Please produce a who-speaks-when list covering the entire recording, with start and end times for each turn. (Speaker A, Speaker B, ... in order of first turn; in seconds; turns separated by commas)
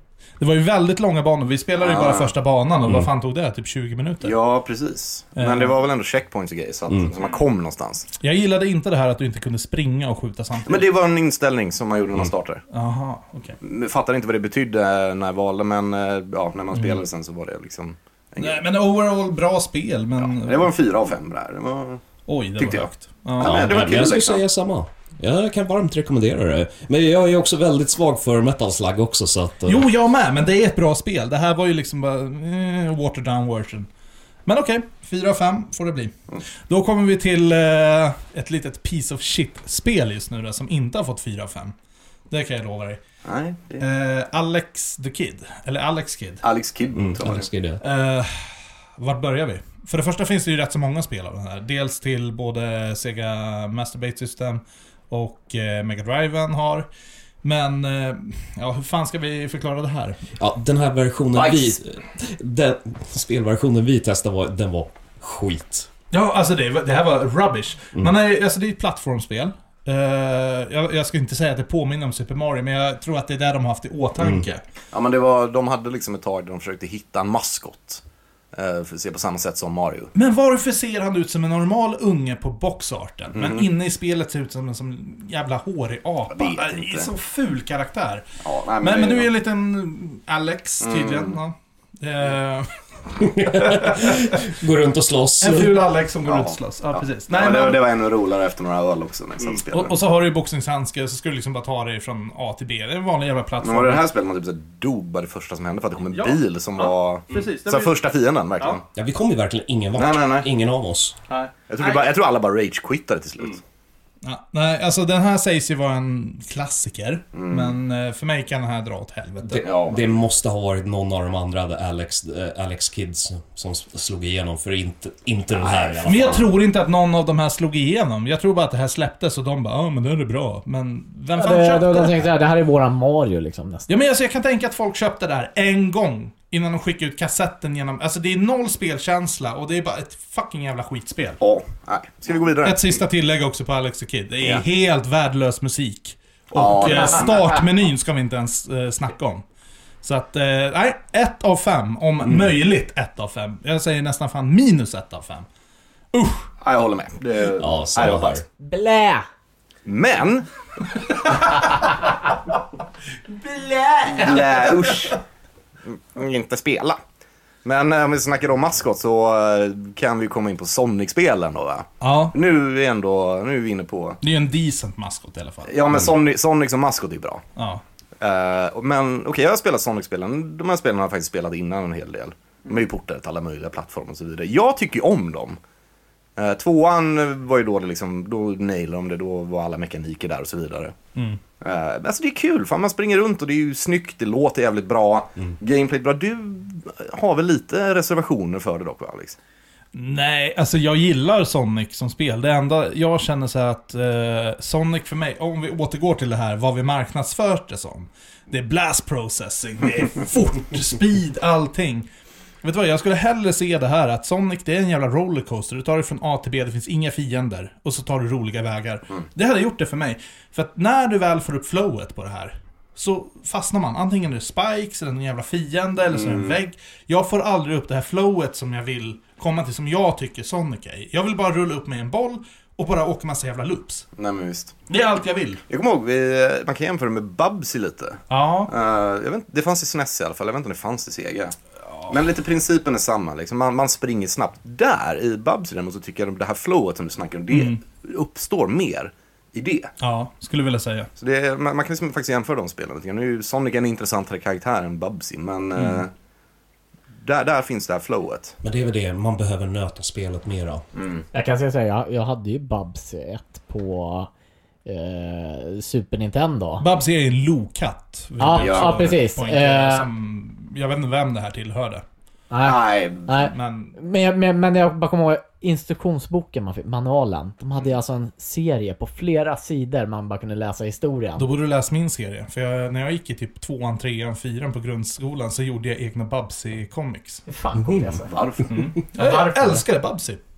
Speaker A: 0.4-4.4, Speaker B: 1.8-2.3, Speaker B: 4.2-8.1, Speaker A: 5.4-5.8, Speaker A: 8.2-10.9, Speaker B: 10.7-12.6, Speaker A: 12.7-13.6, Speaker B: 13.6-18.6, Speaker A: 16.7-17.0, Speaker A: 18.4-20.7, Speaker B: 20.2-22.0, Speaker A: 22.3-23.8, Speaker B: 22.6-24.4, Speaker C: 23.4-29.9, Speaker A: 29.7-33.9, Speaker A: 34.5-36.1, Speaker A: 36.7-41.7, Speaker A: 42.3-43.0, Speaker B: 43.3-43.9, Speaker A: 43.8-46.4, Speaker B: 46.4-47.5, Speaker C: 47.0-47.8, Speaker A: 47.8-56.9, Speaker A: 57.4-60.2, Speaker C: 60.4-65.9, Speaker B: 61.4-61.7, Speaker A: 66.1-74.6, Speaker C: 74.2-74.5, Speaker B: 74.9-78.0, Speaker B: 78.5-80.1, Speaker A: 80.2-88.2, Speaker B: 83.3-83.7, Speaker B: 86.3-87.1, Speaker B: 88.4-89.3, Speaker A: 88.8-92.7, Speaker B: 90.8-91.4, Speaker C: 93.2-95.7, Speaker A: 93.2-94.5, Speaker A: 95.4-97.8, Speaker B: 96.2-100.0, Speaker A: 99.7-104.0, Speaker B: 103.6-108.8, Speaker A: 106.1-108.0, Speaker C: 108.9-111.2, Speaker B: 110.0-110.5, Speaker A: 111.3-112.1, Speaker B: 111.7-113.6, Speaker A: 114.2-119.7, Speaker B: 117.3-117.8, Speaker C: 119.5-126.5, Speaker B: 119.5-120.2, Speaker B: 125.5-126.4, Speaker A: 126.0-132.3, Speaker D: 131.4-133.9, Speaker A: 133.9-141.4, Speaker B: 141.4-142.9, Speaker A: 142.6-149.4, Speaker B: 146.5-147.6, Speaker A: 150.0-155.5, Speaker A: 156.1-156.5, Speaker B: 156.6-158.4, Speaker C: 157.6-158.4, Speaker D: 158.6-159.3, Speaker B: 159.9-161.7, Speaker A: 163.3-165.1, Speaker B: 164.1-165.2, Speaker B: 165.9-167.0, Speaker B: 167.6-174.2, Speaker A: 172.0-172.3, Speaker A: 174.2-175.8, Speaker B: 175.7-177.4, Speaker A: 177.6-177.8, Speaker B: 178.2-185.6, Speaker B: 186.4-190.9, Speaker B: 191.6-199.4, Speaker A: 199.9-212.1, Speaker A: 212.6-234.1, Speaker B: 226.1-226.6, Speaker B: 234.2-234.7, Speaker A: 234.9-235.6, Speaker B: 235.7-241.6, Speaker A: 238.3-238.7, Speaker B: 242.1-249.9, Speaker A: 247.5-247.8, Speaker A: 250.0-251.1, Speaker B: 251.2-256.1, Speaker B: 257.2-258.6, Speaker C: 258.6-260.8, Speaker B: 260.9-261.2, Speaker D: 261.3-264.3, Speaker D: 264.9-266.8, Speaker A: 266.8-272.0, Speaker D: 268.4-270.1, Speaker B: 268.6-269.2, Speaker D: 272.5-281.5, Speaker B: 272.6-273.3, Speaker A: 273.4-274.0, Speaker A: 281.4-287.4, Speaker D: 287.5-288.3, Speaker B: 288.2-288.8, Speaker A: 288.7-290.4, Speaker D: 289.2-289.8